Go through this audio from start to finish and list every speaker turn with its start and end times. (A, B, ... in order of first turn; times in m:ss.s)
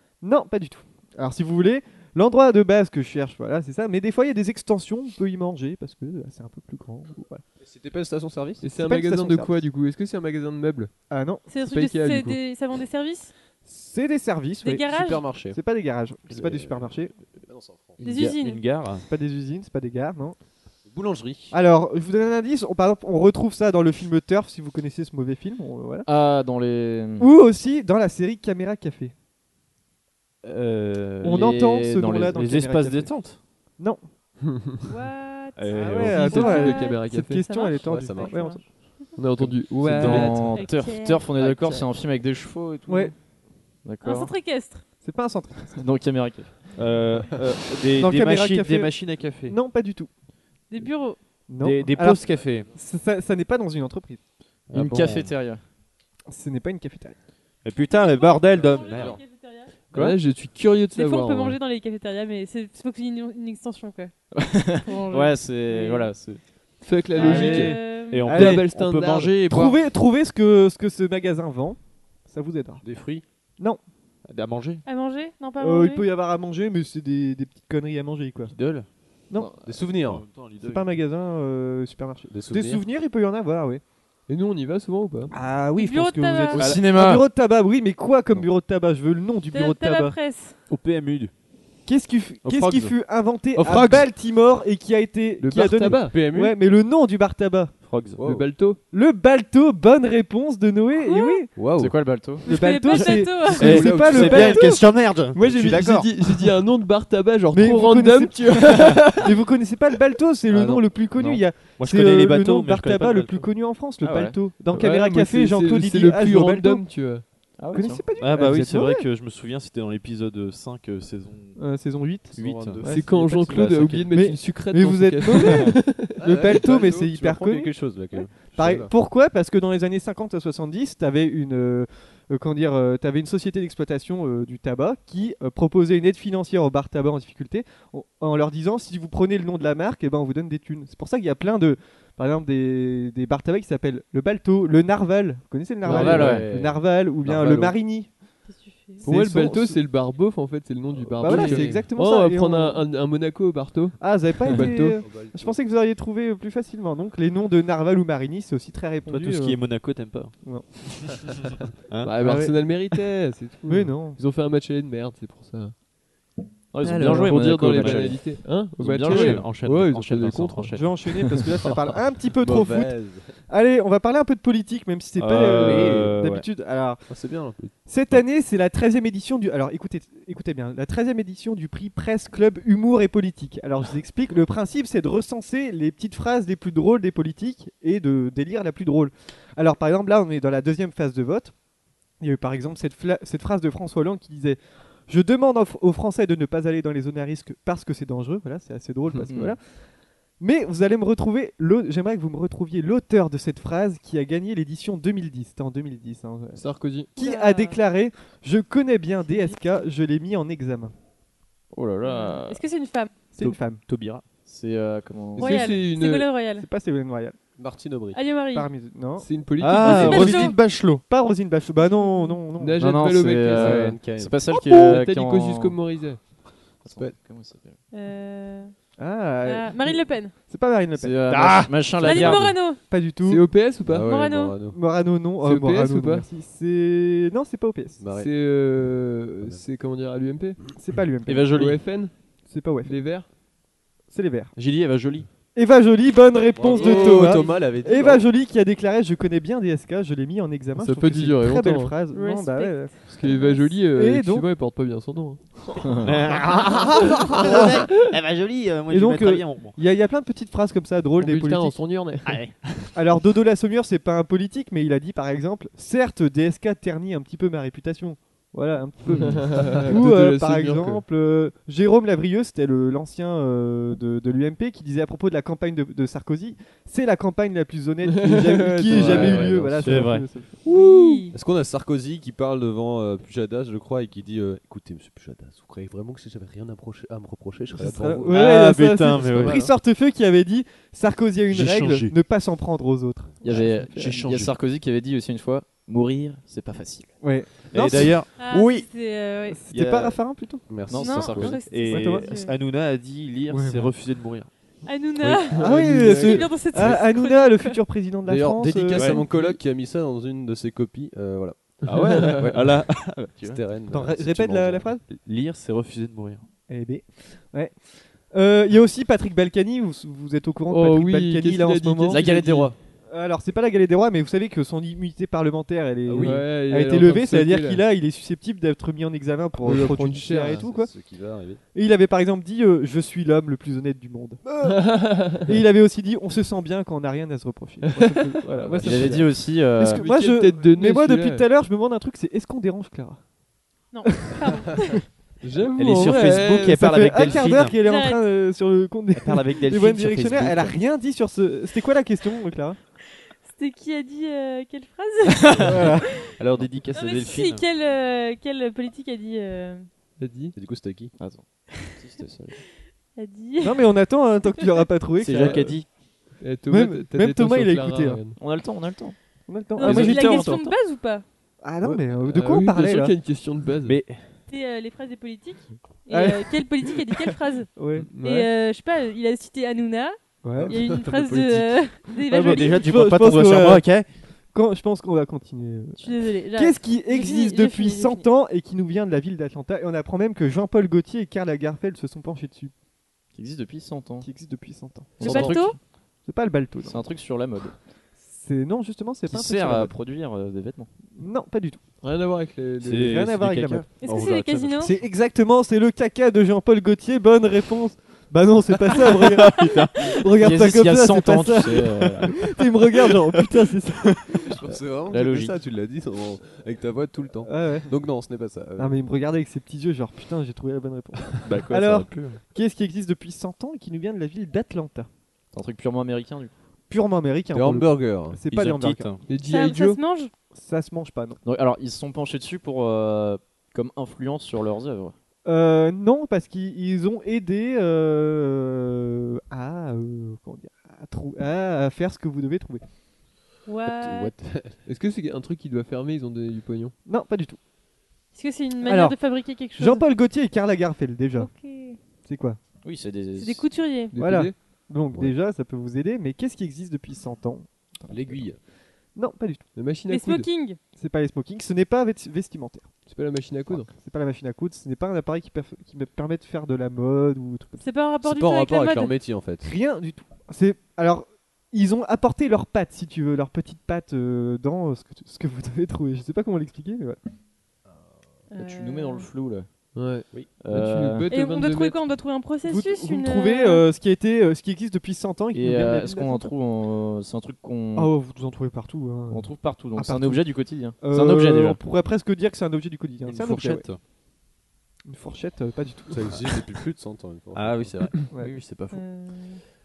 0:00.2-0:07.4 A
0:07.6-0:08.6 B
0:08.6-0:10.9 C
0:08.7-0:09.6 A
0:11.1-0:11.5 A
0:11.5-0:13.3 D
0:11.6-0:12.4 C
0:13.6-0:17.1 A
0:14.6-0:15.3 D
0:14.9-0:15.6 B
0:16.4-0:16.7 B
0:17.5-0:18.0 B
0:18.0-0:18.6 D
0:18.0-0:19.0 E
0:19.0-0:20.4 A
0:20.8-0:21.5 B
0:21.5-0:26.1 A
0:26.0-0:27.3 F
0:27.2-0:29.1 A
0:30.5-0:30.8 E
0:30.8-0:32.4 F
0:31.2-0:33.1 A
0:32.3-0:33.4 E
0:34.4-0:34.8 C
0:34.8-0:39.0 D
0:35.6-0:36.3 E
0:35.7-0:38.6 A
0:36.1-0:37.4 C
0:37.8-0:38.4 B
0:39.2-0:40.6 C
0:39.4-0:40.4 E
0:39.8-0:43.1 F
0:40.5-0:41.4 D
0:42.9-0:43.1 A
0:43.8-0:44.3 F
0:44.0-0:44.8 D
0:45.0-0:45.8 A
0:45.7-0:46.7 F
0:46.7-0:49.6 E
0:47.9-0:48.9 A
0:49.4-0:50.1 A
0:50.7-0:51.2 D
0:51.5-0:54.2 A
0:51.6-0:52.7 E
0:54.7-0:55.3 E
0:54.7-0:55.6 F
0:56.3-0:57.2 A
0:57.6-0:59.2 E
0:57.7-0:59.7 D
0:58.6-0:59.2 B
0:59.9-1:01.6 C
1:00.9-1:04.1 D
1:04.3-1:06.4 F
1:04.8-1:06.1 D
1:06.8-1:09.4 C
1:07.2-1:08.3 D
1:07.2-1:08.6 A
1:08.1-1:09.8 E
1:09.4-1:12.8 A
1:12.8-1:13.2 B
1:14.2-1:14.8 E
1:14.8-1:16.1 D
1:15.6-1:18.5 A
1:18.5-1:18.9 E
1:19.6-1:20.2 B
1:20.0-1:20.9 E
1:20.6-1:23.8 A
1:22.3-1:22.8 B
1:24.3-1:25.3 C
1:25.3-1:30.2 A
1:25.7-1:26.7 D
1:26.5-1:27.2 E
1:26.6-1:27.2 F
1:29.5-1:30.6 D
1:30.7-1:31.3 E
1:31.8-1:37.7 A
1:32.4-1:33.0 E
1:33.6-1:34.1 E
1:35.4-1:36.2 C
1:35.8-1:36.6 B
1:37.8-1:38.2 E
1:38.2-1:38.4 B
1:38.2-1:38.8 C
1:38.9-1:41.5 A
1:41.0-1:41.4 D
1:41.6-1:42.0 B
1:41.7-1:42.4 F
1:42.4-1:43.8 D
1:42.4-1:44.8 A
1:43.6-1:46.1 E
1:43.6-1:44.4 B
1:43.6-1:44.7 C
1:45.3-1:49.3 C
1:47.5-1:56.9 A
1:50.5-1:53.5 E
1:54.0-1:54.4 F
1:54.7-1:57.2 C
1:57.6-1:58.0 F
1:57.7-1:59.1 A
1:58.2-2:01.6 E
2:01.6-2:03.1 A
2:02.3-2:04.1 E
2:02.3-2:03.7 B
2:02.9-2:06.6 C
2:04.1-2:08.0 A
2:06.2-2:08.9 B
2:08.5-2:28.1 A
2:25.8-2:26.5 F
2:25.8-2:27.7 B
2:28.4-2:29.0 D
2:29.0-2:29.8 A
2:29.0-2:35.0 C
2:31.0-2:31.5 B
2:31.2-2:32.8 A
2:34.0-2:39.6 A
2:35.0-2:35.6 B
2:39.0-2:41.3 E
2:40.4-2:41.3 A
2:41.9-2:42.1 E
2:42.0-2:45.7 C
2:42.2-2:42.6 A
2:43.6-2:44.2 A
2:46.7-2:49.5 F
2:46.8-2:50.7 C
2:47.8-2:48.1 E
2:48.9-2:50.8 E
2:50.6-2:51.4 F
2:50.7-2:57.1 A
2:52.4-2:53.3 B
2:55.2-2:56.4 E
2:55.5-2:56.2 B
2:57.1-2:57.7 B
2:57.8-3:11.5 A
3:12.2-3:19.6 A
3:19.3-3:19.5 F
3:20.4-3:26.6 A
3:26.5-3:27.1 C
3:27.2-3:27.8 D
3:27.2-3:30.9 A
3:29.2-3:29.6 D
3:31.7-3:32.6 F
3:32.0-3:33.3 D
3:33.3-3:33.8 A
3:33.4-3:34.2 E
3:34.4-3:35.8 F
3:35.4-3:36.3 C
3:35.4-3:36.7 D
3:36.6-3:37.4 A
3:37.6-3:38.2 B
3:38.1-3:38.7 D
3:38.5-3:39.3 A
3:39.2-3:40.3 C
3:39.6-3:41.0 E
3:39.7-3:40.6 D
3:39.8-3:42.8 A
3:41.8-3:42.4 D
3:42.6-3:46.2 C
3:42.8-3:45.8 F
3:43.5-3:44.4 B
3:46.8-3:47.8 F
3:46.9-3:47.2 B
3:47.9-3:48.7 D
3:49.0-3:51.2 A
3:49.4-3:50.4 D
3:50.9-3:52.6 F
3:51.3-3:52.5 E
3:52.0-3:52.8 D
3:52.6-3:53.5 A
3:53.2-3:54.1 C
3:53.9-3:54.8 B
3:54.0-3:54.6 D
3:54.7-3:58.0 A
3:55.4-3:56.2 C
3:58.0-3:58.3 B
3:58.1-4:00.6 C
4:00.8-4:01.6 A
4:01.2-4:01.8 E
4:01.5-4:02.1 C
4:02.4-4:02.9 A
4:02.8-4:03.3 C
4:04.1-4:04.5 A
4:04.6-4:05.3 E
4:05.5-4:12.9 A
4:06.6-4:08.2 B
4:06.8-4:07.1 D
4:10.8-4:11.9 C
4:12.1-4:13.8 D
4:13.1-4:15.8 C
4:13.8-4:14.5 A
4:15.8-4:16.1 F
4:16.0-4:19.7 E
4:17.2-4:17.8 A
4:18.9-4:21.8 A
4:21.2-4:22.4 C
4:22.2-4:22.9 E
4:22.9-4:40.6 A
4:29.0-4:31.0 C
4:38.0-4:39.5 C
4:39.0-4:40.1 F
4:39.8-4:40.2 E
4:40.6-4:41.3 D
4:40.7-4:41.1 C
4:41.3-4:48.4 B
4:47.7-4:54.0 A
4:48.3-4:49.7 E
4:51.5-4:52.1 E
4:53.4-4:57.1 F
4:53.5-4:54.5 E
4:57.2-4:58.2 A
4:57.7-4:58.9 E
4:58.3-4:59.6 D
4:59.5-5:00.7 A
4:59.7-5:00.1 F
5:00.7-5:01.6 B
5:00.9-5:01.6 F
5:00.9-5:02.6 D
5:01.3-5:04.5 E
5:01.8-5:02.3 A
5:03.5-5:03.9 A
5:04.8-5:07.8 D
5:05.5-5:06.5 C
5:05.5-5:09.2 A
5:08.2-5:12.5 B
5:09.0-5:09.2 E
5:09.2-5:09.6 C
5:11.8-5:13.6 E
5:11.9-5:12.4 C
5:13.4-5:14.9 B
5:13.9-5:15.0 A
5:15.1-5:16.4 E
5:16.7-5:22.2 A
5:20.7-5:22.7 C
5:22.1-5:22.7 F
5:22.2-5:22.6 E
5:23.1-5:30.9 A
5:26.2-5:27.8 C
5:29.6-5:30.6 C
5:30.5-5:31.6 B
5:31.7-5:43.2 A
5:34.6-5:35.5 C
5:37.8-5:41.4 C
5:38.6-5:39.1 B
5:38.8-5:40.1 F
5:43.9-5:45.0 D
5:44.1-5:44.6 A
5:45.4-5:47.2 C
5:45.8-5:47.8 E
5:46.1-5:52.8 A
5:47.8-5:48.2 D
5:49.1-5:50.7 E
5:53.4-5:56.3 D
5:55.6-5:56.2 A
5:56.4-5:57.6 E
5:56.9-5:59.9 D
6:00.2-6:00.6 C
6:00.5-6:01.1 B
6:01.2-6:02.6 F
6:01.7-6:02.0 D
6:02.6-6:03.9 D
6:03.6-6:05.8 A
6:04.6-6:04.8 D
6:05.2-6:05.8 F
6:05.3-6:05.8 E
6:06.4-6:08.4 C
6:06.7-6:08.2 A
6:08.4-6:09.2 F
6:09.5-6:10.6 A
6:09.8-6:11.2 D
6:09.8-6:10.6 E
6:09.9-6:10.7 F
6:11.6-6:13.1 A
6:12.3-6:14.0 C
6:13.8-6:14.4 E
6:14.5-6:22.9 D
6:16.1-6:17.2 A
6:17.8-6:18.1 A
6:18.0-6:18.5 C
6:20.4-6:20.8 A
6:20.6-6:22.0 B
6:22.3-6:24.0 A
6:22.3-6:24.1 E
6:24.5-6:32.7 A
6:26.0-6:28.2 D
6:33.3-6:34.3 F
6:34.2-6:35.7 A
6:35.2-6:35.8 F
6:35.2-6:35.8 D
6:36.2-6:37.0 A
6:36.8-6:37.8 F
6:38.2-6:39.9 A
6:39.3-6:40.9 F
6:41.1-6:41.8 A
6:42.0-6:43.2 C
6:42.8-6:44.9 E
6:43.0-6:43.9 A
6:44.0-6:44.9 D
6:44.8-6:54.6 A
6:49.0-6:50.1 E
6:50.4-6:52.4 F
6:54.4-6:59.0 B
6:55.1-6:55.5 F
6:57.4-6:57.9 A
6:58.8-7:05.1 A
7:01.4-7:02.4 E
7:05.5-7:06.5 F
7:06.9-7:09.1 A
7:07.5-7:08.4 B
7:08.5-7:09.2 E
7:09.3-7:10.0 C
7:09.3-7:10.3 D
7:10.5-7:11.4 A
7:11.4-7:15.1 F
7:15.4-7:22.8 A
7:23.6-7:24.3 D
7:23.8-7:24.8 B
7:24.8-7:26.9 C
7:27.0-7:27.6 A
7:28.3-7:30.0 D
7:28.8-7:31.5 A
7:31.4-7:32.0 D
7:32.2-7:32.6 A
7:32.8-7:33.7 F
7:33.4-7:34.1 D
7:34.1-7:34.5 C
7:34.1-7:38.5 A
7:38.1-7:38.6 B
7:39.1-7:39.6 A
7:39.8-7:40.5 C
7:40.1-7:40.8 D
7:41.0-7:42.9 A
7:43.1-7:43.9 C
7:43.8-7:47.8 A
7:47.8-7:49.1 D
7:48.2-7:49.7 B
7:49.6-7:57.2 A
7:58.5-7:59.3 D
7:58.6-7:59.7 F
7:59.9-8:02.0 C
8:00.6-8:01.3 F
8:01.3-8:03.8 D
8:02.6-8:06.4 A
8:05.5-8:08.1 F
8:08.0-8:13.9 A
8:09.3-8:11.8 F
8:13.2-8:14.0 E
8:15.0-8:16.5 A
8:16.1-8:18.1 B
8:17.5-8:19.0 E
8:18.3-8:18.6 A
8:18.9-8:19.6 D